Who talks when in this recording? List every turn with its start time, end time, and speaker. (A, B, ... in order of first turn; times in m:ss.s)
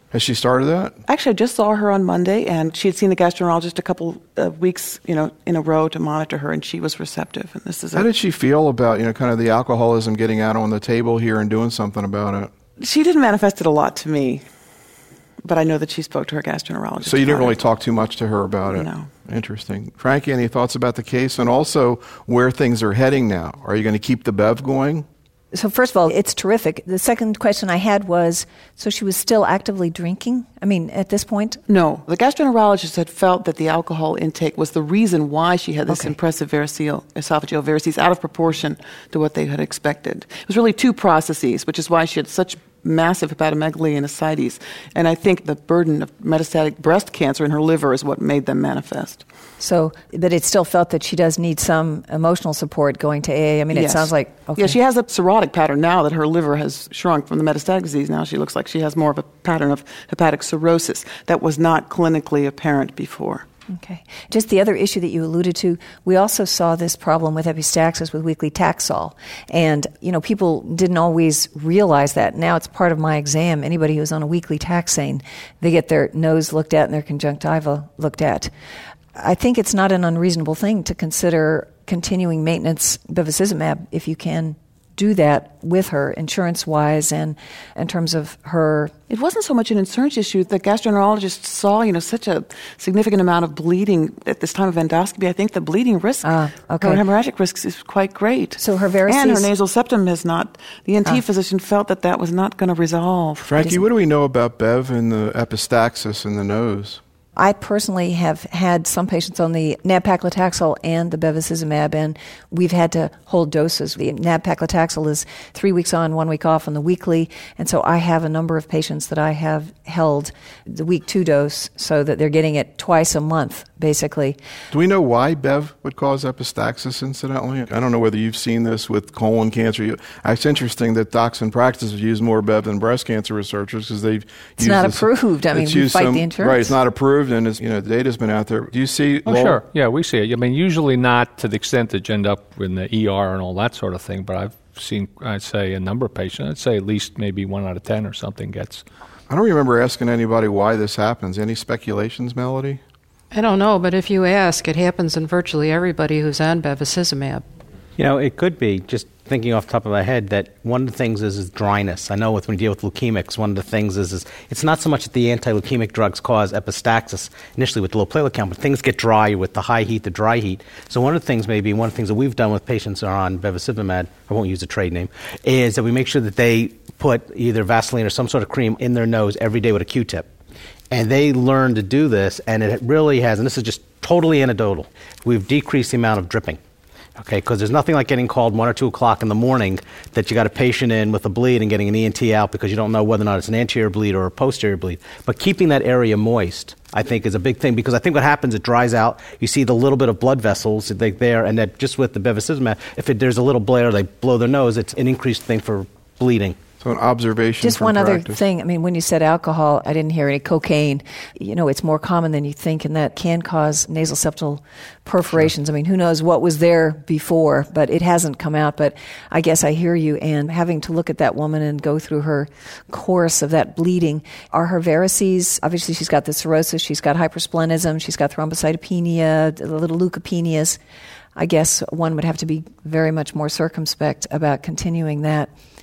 0:00.1-0:01.0 A
0:01.1-0:08.1 B
0:07.9-0:12.5 A
0:12.8-0:14.4 B
0:15.4-0:17.6 B
0:17.0-0:25.1 A
0:18.6-0:19.1 B
0:25.5-0:31.6 C
0:31.7-0:49.2 B
0:49.6-0:54.7 C
0:53.7-1:03.4 B
1:03.8-1:18.5 C
1:19.1-1:28.9 C
1:29.1-1:43.6 B
1:36.2-1:37.0 C
1:38.6-1:39.5 C
1:43.4-1:47.0 A
1:47.4-2:04.4 C
2:04.7-2:19.6 A
2:14.6-2:16.8 C
2:19.4-2:28.8 D
2:29.3-2:32.8 A
2:33.3-2:37.4 E
2:38.0-3:00.3 F
3:00.9-3:06.6 F
3:07.2-3:26.6 F
3:26.8-3:28.4 A
3:27.7-3:50.8 C
3:51.4-3:55.5 C